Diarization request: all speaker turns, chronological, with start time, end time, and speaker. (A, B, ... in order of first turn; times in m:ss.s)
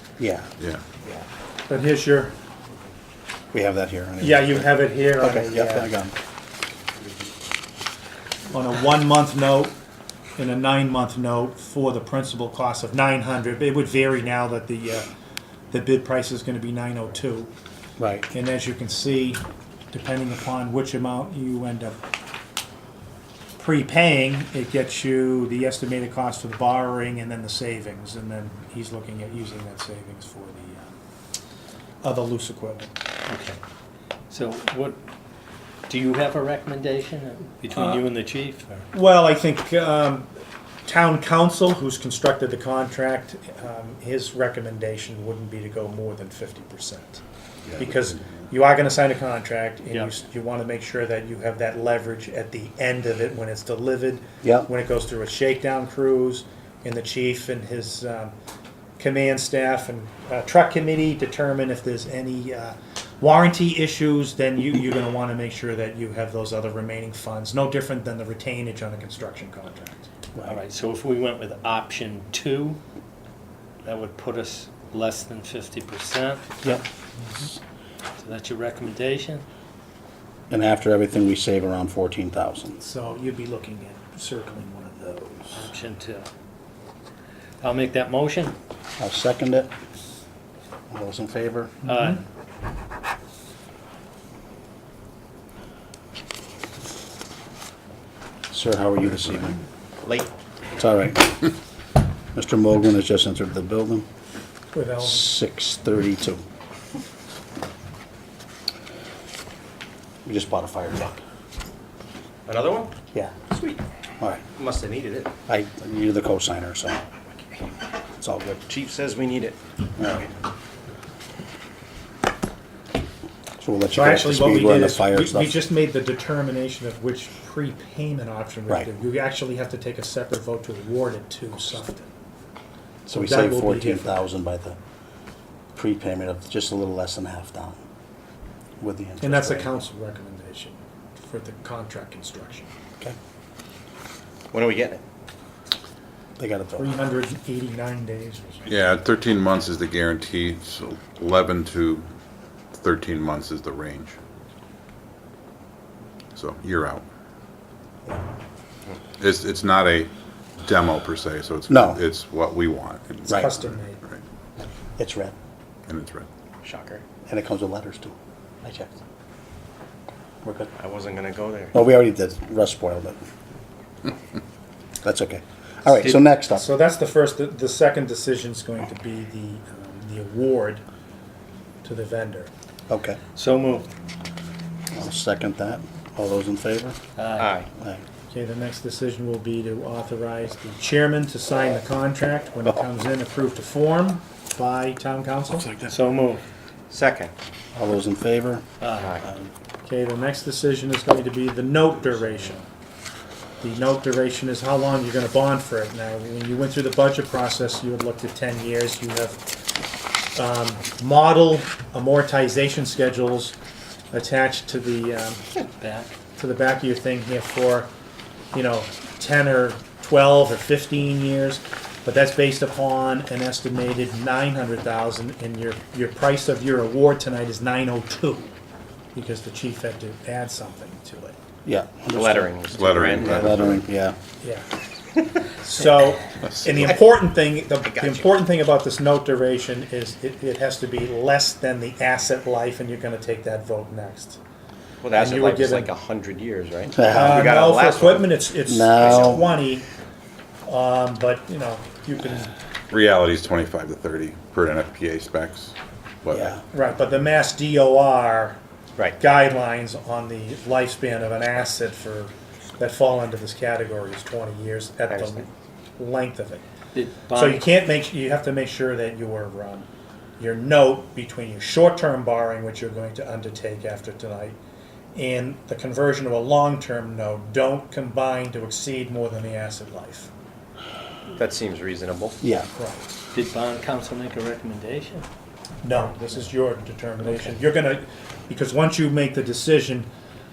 0:00.2-0:00.5 A
0:00.6-0:00.8 B
0:01.7-0:02.4 C
0:03.5-0:06.1 A
0:04.2-0:05.9 C
0:08.5-0:09.7 C
0:10.4-0:15.1 C
0:15.7-0:17.5 C
0:18.0-0:18.3 A
0:18.3-0:19.4 C
0:19.9-0:22.0 C
0:23.6-0:30.9 C
0:32.0-0:32.9 C
0:33.3-0:33.6 D
0:34.3-0:35.0 D
0:35.9-0:38.9 D
0:38.9-0:40.3 C
0:40.8-0:47.2 C
0:47.8-0:58.3 C
0:54.4-0:54.7 A
0:59.0-1:10.1 C
1:10.4-1:12.8 D
1:13.8-1:16.4 D
1:18.2-1:19.4 D
1:20.5-1:22.8 A
1:22.8-1:25.7 C
1:25.5-1:26.3 D
1:27.6-1:28.6 D
1:29.0-1:29.7 A
1:30.9-1:31.7 A
1:31.8-1:32.2 C
1:31.8-1:32.2 D
1:38.5-1:39.6 A
1:40.0-1:40.3 E
1:40.8-1:41.5 A
1:42.3-1:44.0 A
1:44.7-1:45.2 C
1:45.0-1:46.4 A
1:50.2-1:51.2 A
1:52.4-1:52.9 E
1:53.5-1:53.8 E
1:54.5-1:55.3 E
1:55.5-1:57.0 A
1:58.2-1:58.6 A
1:58.7-1:59.6 E
2:03.6-2:05.6 A
2:03.9-2:12.1 C
2:13.0-2:14.8 A
2:13.1-2:14.2 C
2:15.7-2:17.8 A
2:18.8-2:19.7 A
2:19.2-2:22.7 C
2:24.5-2:25.0 E
2:26.4-2:26.9 A
2:26.8-2:28.7 C
2:28.7-2:32.1 B
2:32.7-2:34.2 B
2:36.3-2:37.0 B
2:39.2-2:44.2 B
2:41.7-2:42.0 A
2:43.3-2:43.6 A
2:43.3-2:44.0 C
2:45.0-2:45.3 A
2:45.9-2:46.3 B
2:46.6-2:47.0 E
2:47.2-2:48.9 A
2:50.4-2:50.7 A
2:50.8-2:51.7 E
2:51.7-2:53.2 A
2:55.0-2:56.7 A
2:56.5-3:00.8 C
3:01.8-3:02.5 C
3:02.9-3:03.2 A
3:03.3-3:03.9 D
3:04.9-3:07.0 A
3:07.2-3:07.6 D
3:07.4-3:07.7 E
3:08.3-3:15.7 C
3:15.6-3:15.9 A
3:15.9-3:16.4 D
3:16.9-3:17.3 E
3:17.7-3:18.6 A
3:18.8-3:19.2 D
3:19.8-3:22.6 C
3:23.6-3:29.4 C
3:30.3-3:33.6 C
3:34.1-3:35.4 C
3:35.8-3:36.1 D
3:36.4-3:37.9 C
3:38.5-3:48.5 C
3:49.1-3:51.4 C
3:51.6-3:54.2 A
3:52.1-3:53.7 E
3:52.7-3:53.8 B
3:54.4-3:54.7 C
3:55.5-4:04.4 C
3:56.4-3:56.8 B
3:56.8-3:57.2 E
3:57.8-3:58.4 E
4:05.0-4:08.4 E
4:05.1-4:05.9 C
4:07.0-4:07.6 A
4:07.0-4:09.8 C
4:08.6-4:09.5 A
4:08.9-4:09.4 E
4:10.6-4:12.5 C
4:12.9-4:16.6 B
4:16.3-4:16.6 A
4:16.7-4:18.6 C
4:19.2-4:25.5 C
4:25.1-4:25.5 E
4:26.0-4:26.6 C
4:26.9-4:27.6 D
4:27.3-4:29.9 C
4:30.4-4:34.6 C
4:35.1-4:40.3 C
4:41.3-4:42.4 E
4:42.4-4:42.7 A
4:42.7-4:43.1 C
4:43.3-4:45.3 D
4:45.8-4:50.1 C
4:47.2-4:47.5 D